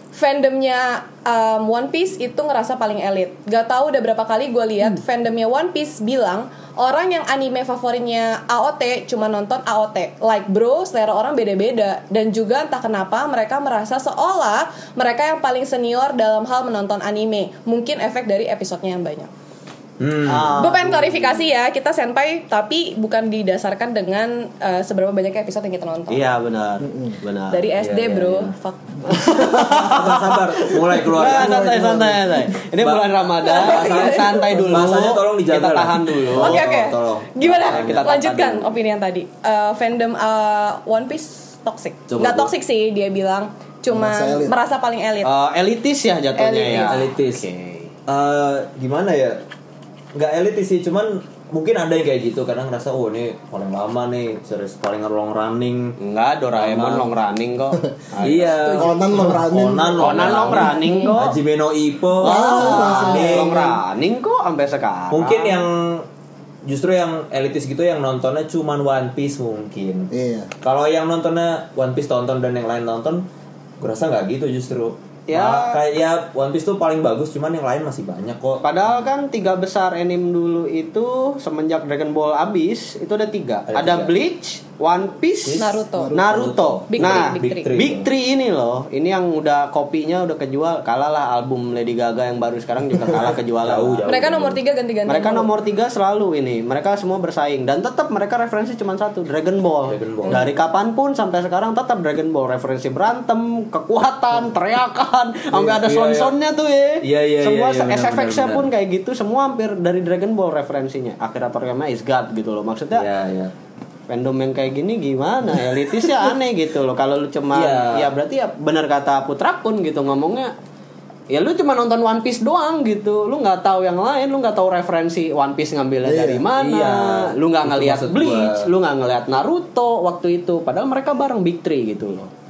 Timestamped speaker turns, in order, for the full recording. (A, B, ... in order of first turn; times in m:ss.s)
0:00.1-0:19.3 A
0:20.0-0:20.7 B
0:20.2-0:21.4 C
0:20.6-0:26.2 A
0:26.1-0:27.7 C
0:26.8-0:27.2 D
0:27.5-0:29.2 A
0:27.8-0:28.5 B
0:29.1-0:36.7 C
0:29.1-0:32.0 B
0:31.2-0:32.4 D
0:32.8-0:38.6 B
0:33.4-0:34.5 A
0:36.4-0:45.3 A
0:37.6-0:38.5 C
0:42.1-0:42.5 B
0:43.9-0:44.6 D
0:45.2-0:47.9 C
0:46.4-0:47.1 A
0:46.7-0:47.5 B
0:48.1-0:49.4 B
0:50.1-0:56.0 B
0:56.0-0:59.0 C
0:56.5-0:57.1 B
0:58.2-1:03.8 B
0:58.6-0:58.9 A
0:58.8-1:01.1 D
1:00.0-1:01.4 C
1:02.2-1:05.6 C
1:02.2-1:03.7 D
1:05.1-1:06.1 B
1:06.7-1:10.1 B
1:10.1-1:10.5 D
1:10.6-1:13.3 B
1:13.8-1:18.6 B
1:15.3-1:15.8 C
1:18.6-1:34.1 C
1:23.7-1:24.1 B
1:25.4-1:28.1 B
1:25.6-1:26.1 A
1:25.9-1:26.3 D
1:26.9-1:27.7 A
1:33.6-1:34.6 B
1:34.0-1:35.5 A
1:35.1-1:53.1 C
1:39.9-1:40.5 B
1:45.5-1:46.3 B
1:47.0-1:48.7 B
1:52.9-1:53.5 B
1:54.1-2:00.5 C
1:57.5-1:58.1 B
2:01.3-2:12.3 C
2:06.0-2:06.4 D
2:06.6-2:08.7 B